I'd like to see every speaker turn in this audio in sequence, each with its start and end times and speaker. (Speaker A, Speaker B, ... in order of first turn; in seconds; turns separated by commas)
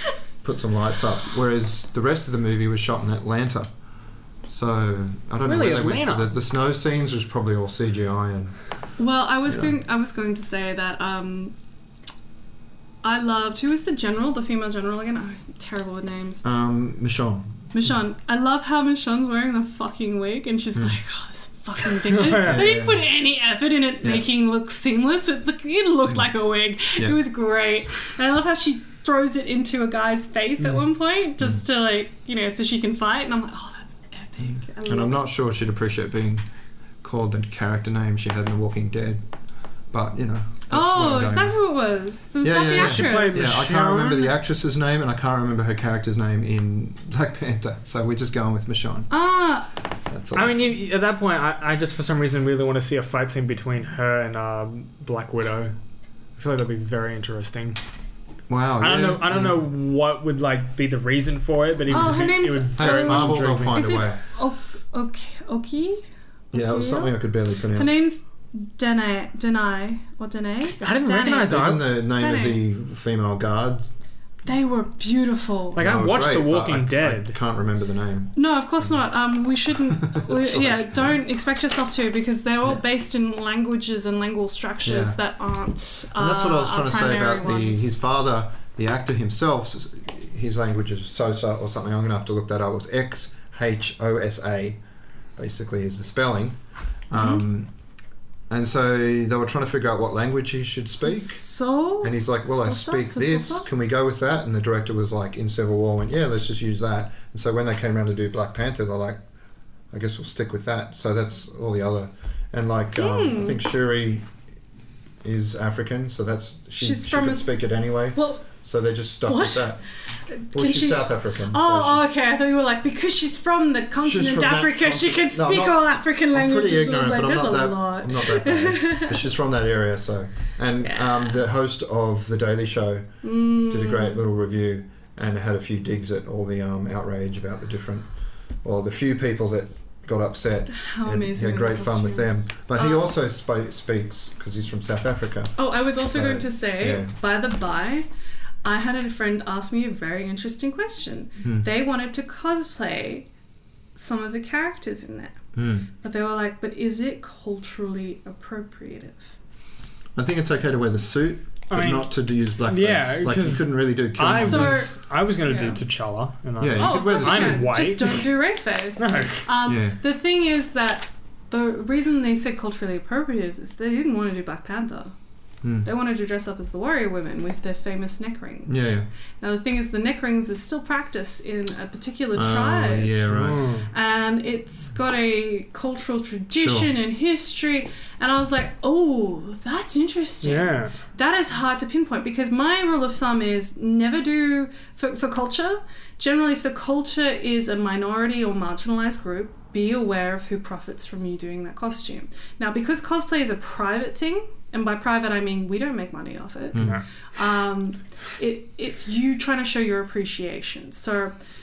Speaker A: 0.4-3.7, Speaker A: 4.5-8.6, Speaker B: 5.4-6.3, Speaker C: 9.0-11.5, Speaker A: 9.5-9.7, Speaker C: 13.0-16.4, Speaker A: 16.4-17.6, Speaker C: 17.7-35.2, Speaker B: 21.9-22.7, Speaker A: 22.4-23.0, Speaker B: 30.6-30.9, Speaker A: 34.8-36.5, Speaker A: 37.0-39.2, Speaker A: 39.9-41.6, Speaker C: 40.7-43.6, Speaker A: 42.4-49.1, Speaker B: 42.7-44.3, Speaker C: 49.1-49.7, Speaker A: 50.1-50.7, Speaker B: 50.4-55.8, Speaker B: 56.4-57.8, Speaker A: 58.5-59.6, Speaker B: 58.8-63.9, Speaker C: 61.9-67.2, Speaker A: 61.9-62.2, Speaker A: 62.8-64.2, Speaker A: 66.5-68.0, Speaker C: 67.8-72.6, Speaker B: 70.8-71.8, Speaker A: 71.4-73.9, Speaker C: 74.5-75.8, Speaker B: 75.8-77.4, Speaker A: 75.8-78.8, Speaker C: 78.4-87.9, Speaker A: 80.0-81.1, Speaker A: 84.8-85.2, Speaker A: 86.2-94.8, Speaker A: 95.4-96.6, Speaker A: 97.1-97.7, Speaker C: 97.1-97.4, Speaker A: 98.5-101.4, Speaker C: 101.0-103.7, Speaker A: 102.0-109.2, Speaker A: 109.9-114.3, Speaker C: 113.0-113.6, Speaker A: 115.2-119.8, Speaker C: 116.8-117.6, Speaker C: 118.2-118.5, Speaker C: 119.3-119.8, Speaker C: 120.4-129.2, Speaker A: 120.5-122.0, Speaker A: 124.0-133.1, Speaker C: 130.8-131.4, Speaker C: 133.2-134.2, Speaker A: 133.7-138.1, Speaker A: 138.6-147.1, Speaker C: 140.7-143.1, Speaker C: 145.6-148.1, Speaker C: 148.6-153.3, Speaker A: 151.4-151.7, Speaker C: 154.0-155.4, Speaker A: 155.6-155.9, Speaker C: 156.0-159.3, Speaker A: 160.2-164.9, Speaker B: 161.7-162.1, Speaker B: 162.7-168.2, Speaker C: 164.2-165.8, Speaker A: 166.6-167.7, Speaker C: 166.8-175.1, Speaker B: 169.0-169.5, Speaker A: 169.7-170.0, Speaker A: 175.6-175.9, Speaker C: 175.8-178.7, Speaker A: 178.7-179.1, Speaker C: 179.4-183.2, Speaker A: 182.3-183.8, Speaker B: 183.3-183.9, Speaker C: 183.9-211.3, Speaker A: 186.6-186.9, Speaker B: 190.4-191.0, Speaker A: 206.7-207.0, Speaker B: 206.8-207.0